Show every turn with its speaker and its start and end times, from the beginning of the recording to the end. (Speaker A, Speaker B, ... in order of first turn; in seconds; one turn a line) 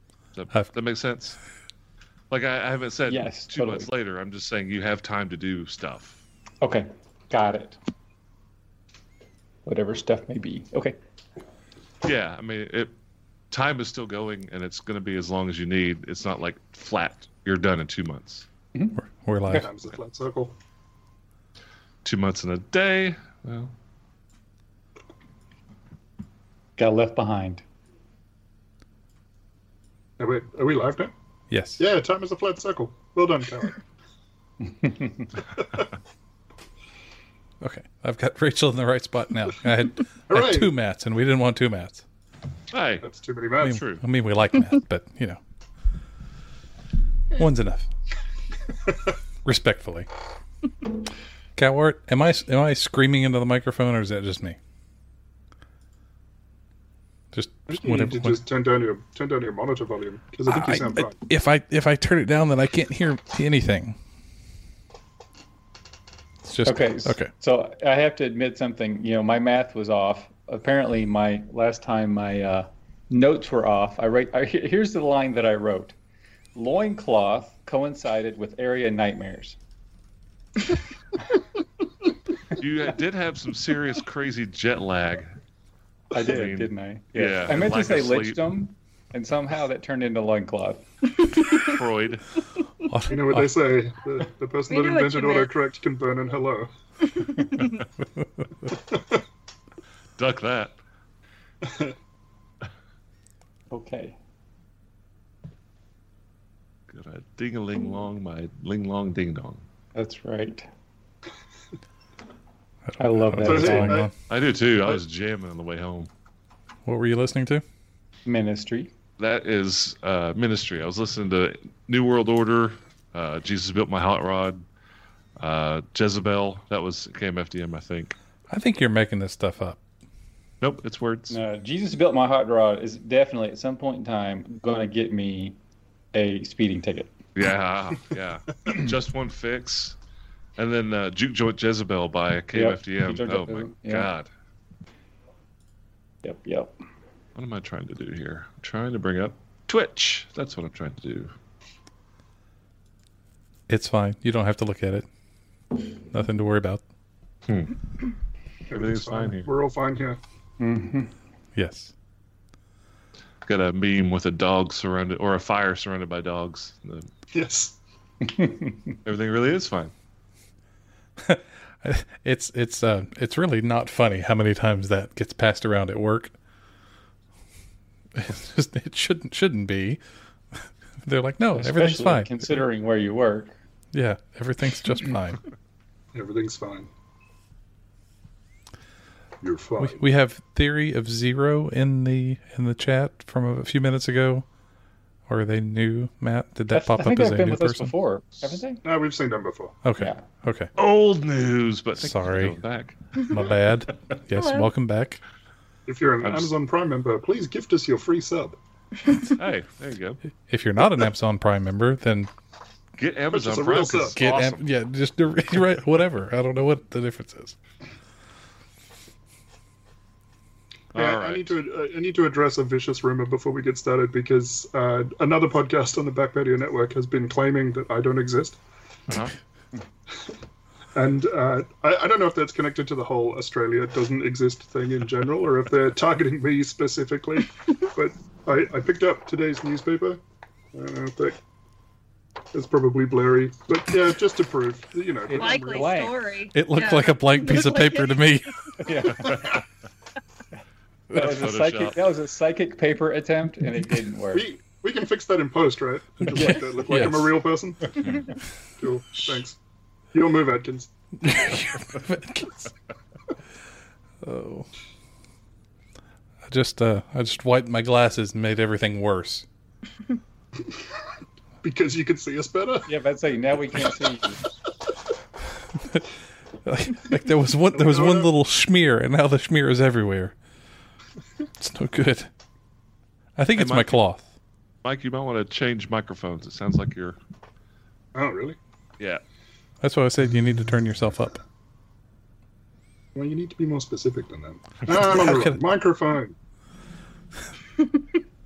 Speaker A: 0.4-1.4
Speaker A: 2.3-6.2
Speaker B: 3.1-3.9
Speaker B: 6.6-7.8
Speaker B: 9.7-11.0
Speaker A: 12.0-12.9
Speaker A: 13.5-18.5
Speaker B: 18.8-19.6
Speaker C: 19.2-19.7
Speaker D: 19.5-20.6
Speaker A: 22.1-23.7
Speaker B: 26.8-27.6
Speaker D: 30.2-31.1
Speaker C: 31.5-31.8
Speaker D: 31.8-33.8
Speaker B: 34.8-35.1
Speaker C: 37.6-42.0
Speaker D: 40.3-40.7
Speaker A: 42.7-43.1
Speaker D: 43.0-43.8
Speaker C: 43.6-45.4
Speaker A: 43.6-44.0
Speaker C: 47.3-47.9
Speaker C: 49.5-50.1
Speaker C: 51.6-54.6
Speaker C: 57.3-58.4
Speaker D: 57.7-61.1
Speaker C: 60.5-64.0
Speaker C: 66.5-67.3
Speaker B: 66.6-76.0
Speaker B: 76.5-79.6
Speaker A: 82.5-85.3
Speaker B: 86.1-90.8
Speaker A: 86.2-88.4
Speaker A: 91.5-92.2
Speaker C: 92.9-93.5
Speaker D: 93.1-96.7
Speaker E: 94.7-95.5
Speaker E: 97.4-97.8
Speaker A: 100.2-100.8
Speaker D: 101.6-101.9
Speaker B: 103.7-104.2
Speaker A: 106.9-109.6
Speaker B: 110.0-110.7
Speaker B: 113.0-114.1
Speaker C: 113.1-114.1
Speaker D: 113.4-114.1
Speaker A: 114.3-116.1
Speaker C: 116.8-117.6
Speaker B: 118.3-118.9
Speaker A: 119.2-124.6
Speaker A: 125.4-128.2
Speaker C: 128.5-129.8
Speaker A: 130.6-131.4
Speaker B: 131.3-135.6
Speaker B: 136.1-137.1
Speaker A: 137.3-140.0
Speaker A: 140.6-144.3
Speaker B: 142.5-144.1
Speaker B: 146.2-146.7
Speaker A: 147.3-151.3
Speaker C: 153.7-155.1
Speaker C: 156.1-156.8
Speaker A: 157.5-157.8
Speaker D: 158.7-160.2
Speaker A: 158.7-159.5
Speaker B: 160.6-161.1
Speaker C: 161.6-161.9
Speaker A: 163.4-167.1
Speaker D: 167.3-167.8
Speaker B: 168.2-168.8
Speaker A: 169.0-169.9
Speaker C: 171.2-176.3
Speaker C: 178.1-180.0
Speaker C: 180.6-182.4
Speaker B: 181.6-183.5
Speaker C: 183.9-185.4
Speaker D: 186.1-186.9
Speaker D: 189.4-190.0
Speaker C: 189.8-194.5
Speaker C: 195.3-197.9
Speaker B: 196.7-198.8
Speaker D: 198.8-199.8
Speaker C: 199.8-200.7
Speaker B: 200.0-200.2
Speaker A: 200.8-203.0
Speaker C: 202.0-202.6
Speaker C: 203.3-205.2
Speaker E: 204.3-204.7
Speaker D: 205.9-208.6
Speaker A: 206.2-206.5
Speaker A: 209.4-210.2
Speaker C: 210.5-212.3
Speaker A: 213.0-214.6
Speaker D: 213.3-214.2
Speaker C: 214.2-217.6
Speaker A: 220.9-221.5
Speaker D: 220.9-228.6
Speaker A: 229.1-229.3
Speaker D: 230.9-240.2
Speaker D: 240.7-241.4
Speaker D: 242.5-245.6
Speaker B: 245.3-246.2
Speaker E: 245.3-248.4
Speaker C: 246.5-248.5
Speaker B: 248.8-249.6
Speaker A: 249.3-249.6
Speaker B: 251.1-254.5
Speaker A: 251.1-252.1
Speaker D: 254.3-258.1
Speaker B: 256.4-256.6
Speaker C: 256.9-257.4
Speaker A: 258.0-258.3
Speaker D: 258.8-259.6
Speaker D: 260.1-260.9
Speaker C: 261.2-262.7
Speaker C: 264.2-264.7
Speaker C: 266.5-269.5
Speaker D: 271.6-272.9
Speaker B: 272.9-274.4
Speaker C: 275.7-276.1
Speaker C: 276.6-280.4
Speaker D: 277.7-278.3
Speaker C: 281.6-282.3
Speaker C: 283.4-284.2
Speaker A: 283.6-283.9
Speaker A: 284.8-287.2
Speaker D: 288.1-288.6
Speaker C: 289.8-291.4
Speaker D: 293.1-296.4
Speaker C: 294.9-295.6